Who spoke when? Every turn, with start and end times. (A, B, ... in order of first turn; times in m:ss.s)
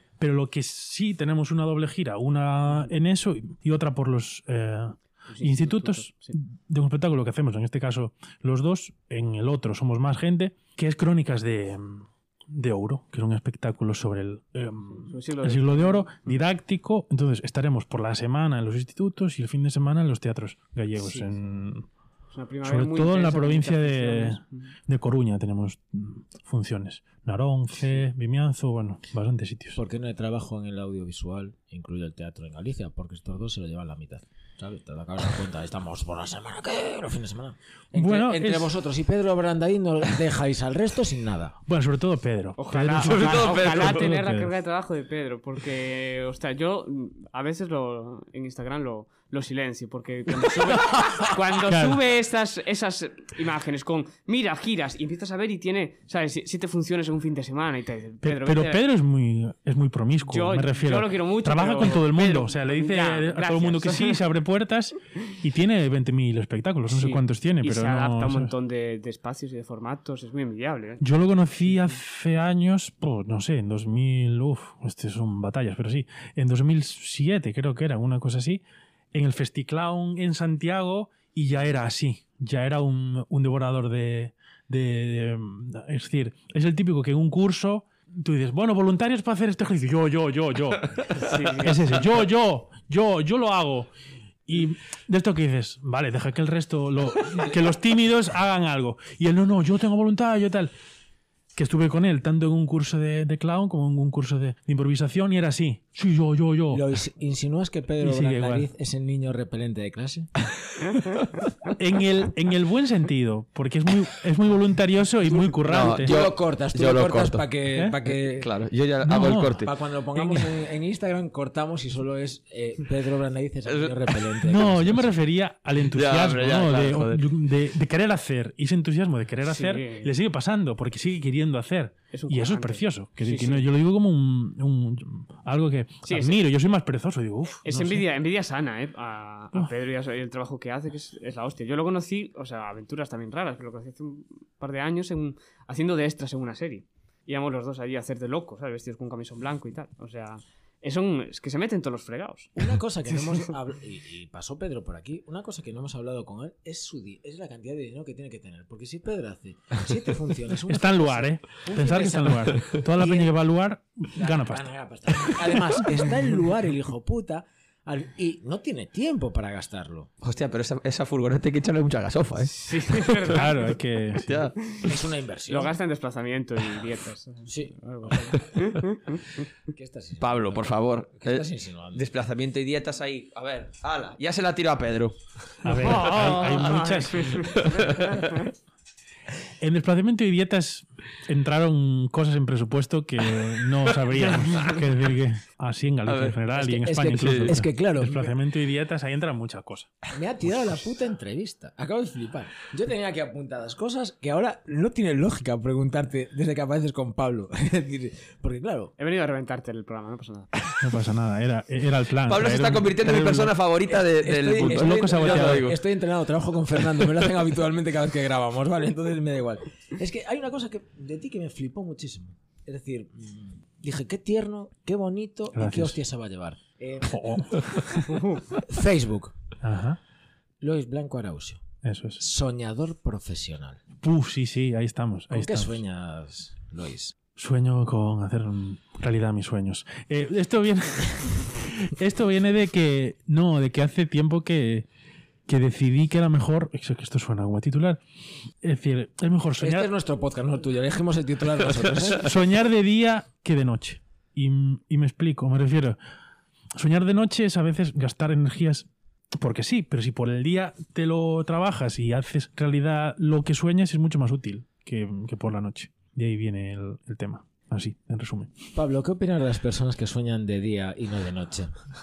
0:00.2-0:21.8 A
0:05.3-0:06.4 B
0:14.9-0:16.4 B
0:21.0-0:21.3 B
0:22.3-0:24.7 B
0:22.6-0:29.8 A
0:29.8-0:41.6 C
0:37.9-0:38.7 A
0:41.7-0:44.5 A
0:42.6-0:58.8 B
0:43.0-0:44.1 D
0:51.6-0:52.0 A
0:58.2-1:08.5 A
1:00.2-1:04.2 B
1:06.9-1:11.0 B
1:11.0-1:18.6 A
1:11.6-1:12.0 B
1:19.1-1:33.9 A
1:31.1-1:32.0 B
1:34.5-1:40.7 A
1:41.5-1:46.8 A
1:46.7-1:50.3 C
1:48.0-1:48.7 A
1:51.7-1:56.2 A
1:55.2-1:58.5 C
1:55.6-1:57.4 D
1:58.4-1:59.7 D
1:59.0-1:59.6 A
1:59.6-2:05.2 C
2:00.1-2:00.5 A
2:03.7-2:03.9 D
2:04.4-2:18.0 A
2:05.9-2:07.3 D
2:09.4-2:10.1 B
2:12.1-2:13.6 B
2:16.0-2:16.4 B
2:17.6-2:32.6 B
2:32.6-2:43.4 C
2:40.7-2:44.7 A
2:44.1-2:50.1 C
2:50.2-2:53.4 D
2:52.5-2:53.8 B
2:53.2-2:54.5 A
2:54.2-2:54.6 D
2:54.8-2:55.8 C
2:55.5-2:59.4 B
2:57.5-2:57.8 C
2:59.7-3:02.1 C
3:00.2-3:05.2 D
3:05.6-3:07.8 A
3:05.6-3:08.5 B
3:05.8-3:06.6 D
3:07.6-3:08.3 D
3:09.6-3:20.0 A
3:16.0-3:16.4 D
3:16.5-3:18.3 C
3:17.1-3:17.6 D
3:20.1-3:28.9 C
3:29.0-3:30.7 B
3:30.8-3:33.6 A
3:32.3-3:35.8 D
3:33.9-3:49.4 C
3:34.5-3:35.7 A
3:45.5-3:46.0 A
3:47.0-3:48.0 A
3:49.6-3:50.0 A
3:50.6-3:51.6 C
3:51.8-3:52.2 A
3:52.2-3:53.8 C
3:54.0-3:55.8 A
3:55.3-3:57.1 C
3:57.4-4:04.8 A
4:05.5-4:08.0 A
4:08.6-4:09.9 A
4:09.6-4:12.3 C
4:12.2-4:16.0 A
4:16.8-4:18.9 A
4:19.4-4:28.5 A
4:28.7-4:31.7 C